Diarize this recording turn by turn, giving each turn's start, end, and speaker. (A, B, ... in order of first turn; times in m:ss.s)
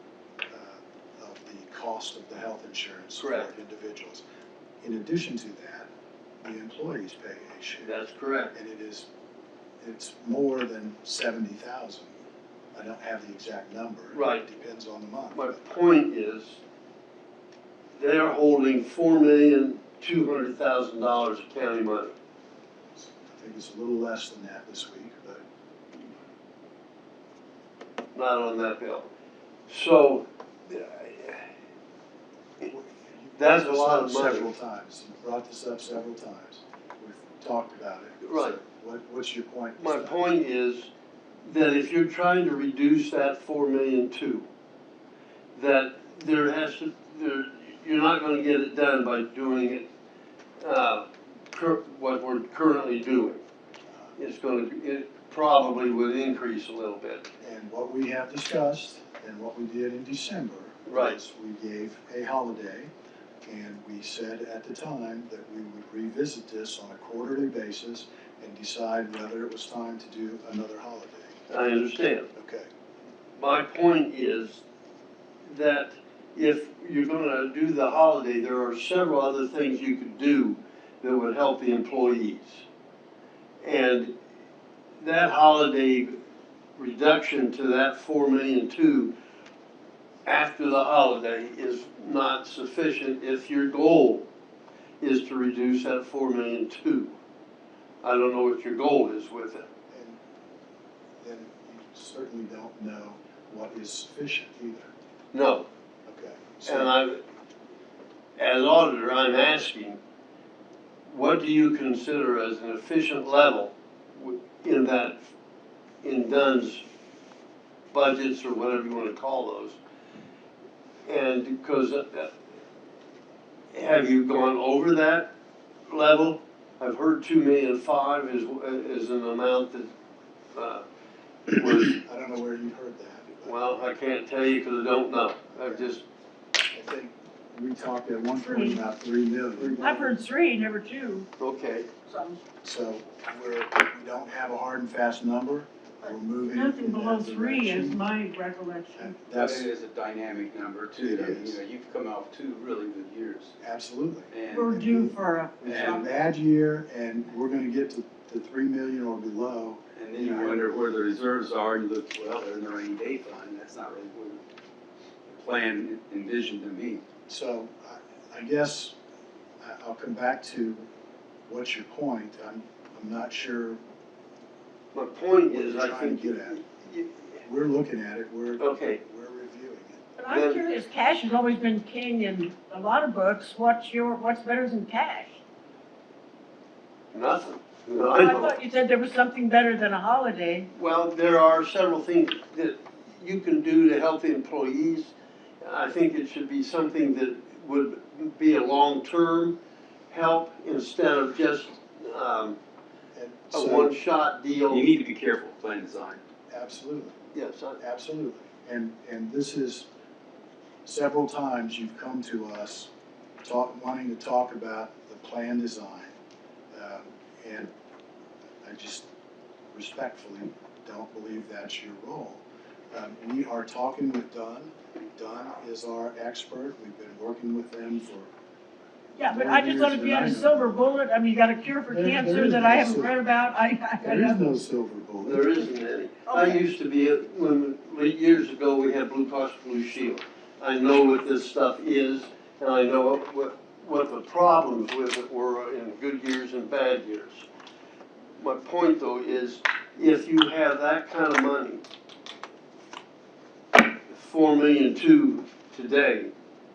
0:00.5-0:04.2 A
0:03.2-0:03.5 B
0:04.8-0:05.9 A
0:06.4-0:07.9 A
0:07.8-0:08.5 B
0:08.5-0:09.1 A
0:09.8-0:12.2 A
0:12.7-0:15.6 A
0:14.1-0:14.5 B
0:15.3-0:16.6 B
0:18.0-0:22.1 B
0:23.0-0:25.4 A
0:28.1-0:29.1 B
0:29.7-0:31.5 B
0:32.6-0:40.3 A
0:33.4-0:34.5 B
0:38.2-0:38.6 B
0:39.8-0:40.9 B
0:41.4-0:44.5 B
0:45.6-0:49.9 B
0:50.6-0:53.4 B
0:54.2-0:57.3 B
0:57.4-1:02.9 A
1:00.9-1:01.2 B
1:03.5-1:11.4 A
1:11.5-1:12.3 B
1:12.3-1:12.7 A
1:13.4-1:14.6 B
1:15.4-1:22.6 B
1:23.6-1:24.1 B
1:25.0-1:26.2 B
1:26.8-1:29.1 B
1:30.3-1:34.2 B
1:35.0-1:37.2 B
1:38.0-1:39.7 B
1:39.9-1:40.2 A
1:41.2-1:44.9 A
1:45.3-1:45.7 B
1:46.1-1:46.9 A
1:46.7-1:47.2 B
1:48.4-1:50.0 B
1:51.1-1:55.2 B
1:56.0-1:56.8 B
1:57.9-1:59.8 B
2:01.1-2:02.3 B
2:03.7-2:05.3 B
2:05.9-2:09.9 B
2:10.6-2:10.8 B
2:11.5-2:12.0 B
2:11.9-2:13.6 A
2:13.4-2:16.0 B
2:15.6-2:15.9 A
2:16.7-2:19.8 A
2:18.4-2:18.8 C
2:19.6-2:20.1 B
2:19.8-2:21.3 C
2:21.4-2:21.9 B
2:22.1-2:22.4 C
2:22.6-2:28.0 A
2:26.5-2:29.1 C
2:29.0-2:29.7 A
2:29.3-2:33.6 D
2:31.0-2:31.6 A
2:33.6-2:40.6 A
2:34.3-2:34.8 D
2:34.5-2:36.0 C
2:35.7-2:36.0 D
2:40.0-2:44.4 D
2:45.3-2:47.0 D
2:47.3-2:49.0 A
2:49.6-2:50.9 A
2:51.5-2:53.8 A
2:54.9-2:57.2 B
2:55.5-2:56.6 A
2:57.4-3:00.1 A
2:58.6-2:59.0 B
3:00.2-3:05.4 C
3:00.3-3:00.7 B
3:07.1-3:08.6 B
3:08.0-3:10.7 C
3:10.7-3:19.6 B
3:20.1-3:22.6 B
3:23.2-3:23.9 A
3:23.5-3:24.9 B
3:24.7-3:26.2 D
3:26.5-3:27.2 A
3:27.3-3:27.8 B
3:27.8-3:29.9 A
3:30.8-3:32.9 A
3:33.4-3:36.1 A
3:36.7-3:37.7 A
3:38.6-3:39.1 A
3:39.7-3:48.3 A
3:49.2-3:54.4 C
3:49.2-3:50.8 A
3:51.9-3:53.2 A
3:54.0-3:55.5 A
3:55.2-4:07.5 B
3:56.3-3:56.6 C
4:08.4-4:11.8 B
4:14.1-4:16.3 B